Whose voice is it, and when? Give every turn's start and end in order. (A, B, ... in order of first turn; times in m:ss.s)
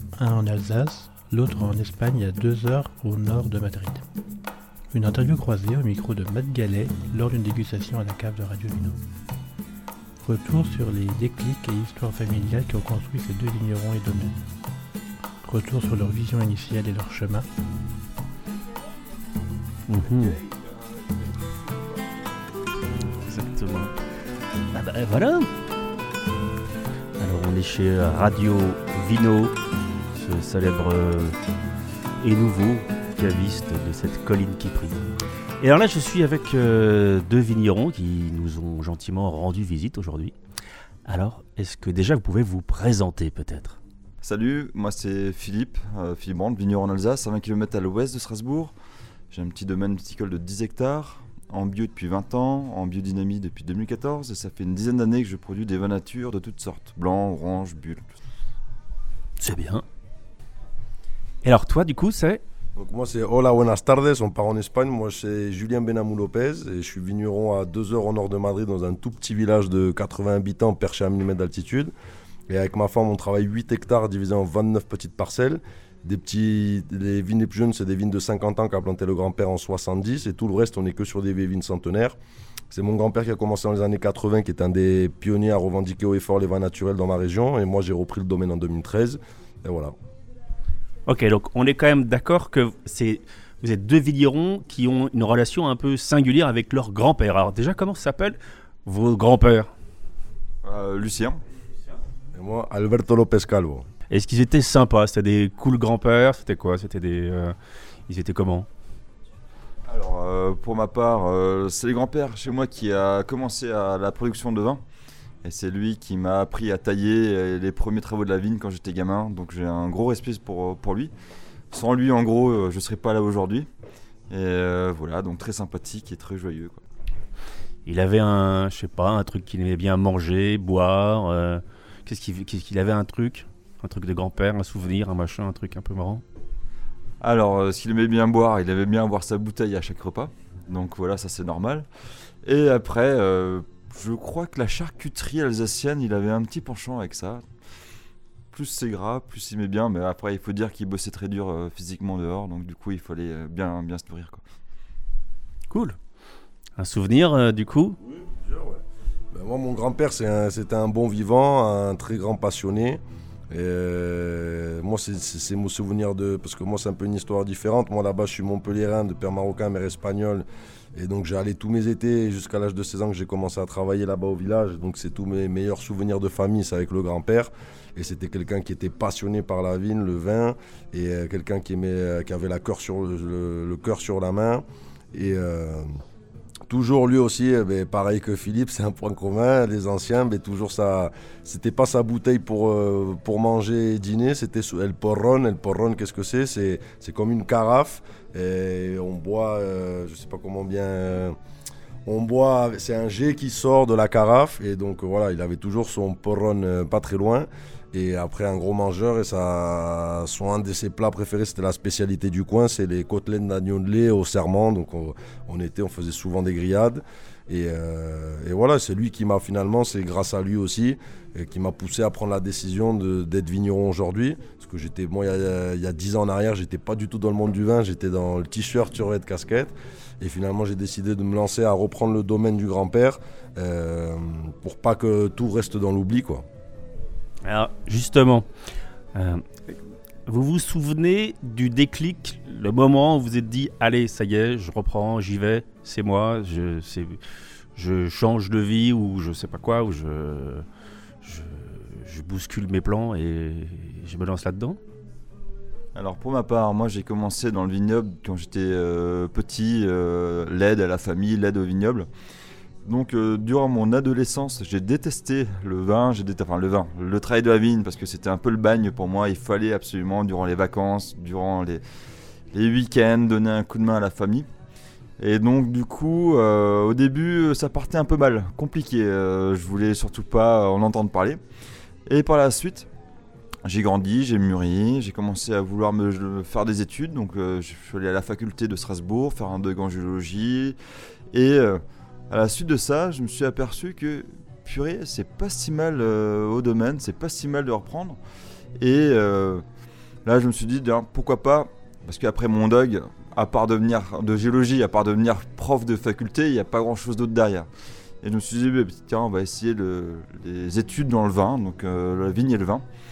0:00.2-0:04.0 A
0:04.9-0:09.0 A
0:10.2-0:14.4 A
0:15.4-0:17.5 A
0:19.9-0:20.4 B
0:23.0-0:23.9 B
0:24.7-0:25.5 B
0:27.2-0:29.6 B
0:30.1-0:31.4 B
0:32.2-0:40.3 B
0:41.1-0:43.8 B
0:44.2-0:48.7 C
0:49.3-0:58.1 C
0:59.4-0:59.8 B
1:01.4-1:02.4 B
1:02.8-1:11.9 D
1:12.5-1:22.2 D
1:22.7-1:29.9 D
1:31.1-1:39.7 B
1:40.6-1:41.4 C
1:42.4-1:43.9 D
1:44.1-1:47.6 B
1:48.1-1:48.7 B
1:49.9-1:54.8 C
1:55.4-2:01.1 C
2:01.7-2:03.7 C
2:04.3-2:06.8 C
2:07.9-2:16.2 B
2:17.2-2:21.9 C
2:22.4-2:27.5 C
2:28.5-2:34.4 C
2:35.7-2:36.0 B
2:36.8-2:38.0 B
2:38.0-3:06.0 D
3:06.7-3:21.4 D
3:22.1-3:56.4 D
3:57.4-3:58.5 B
3:59.1-4:07.2 B
4:07.8-4:10.7 B
4:11.2-4:14.8 B
4:16.0-4:22.1 C
4:22.9-4:31.8 C
4:32.5-4:34.5 C
4:35.2-4:41.4 C
4:42.1-4:42.9 C
4:43.6-4:50.8 C
4:51.3-4:58.2 C
4:58.8-4:59.6 C
5:00.2-5:07.7 C
5:08.2-5:12.8 C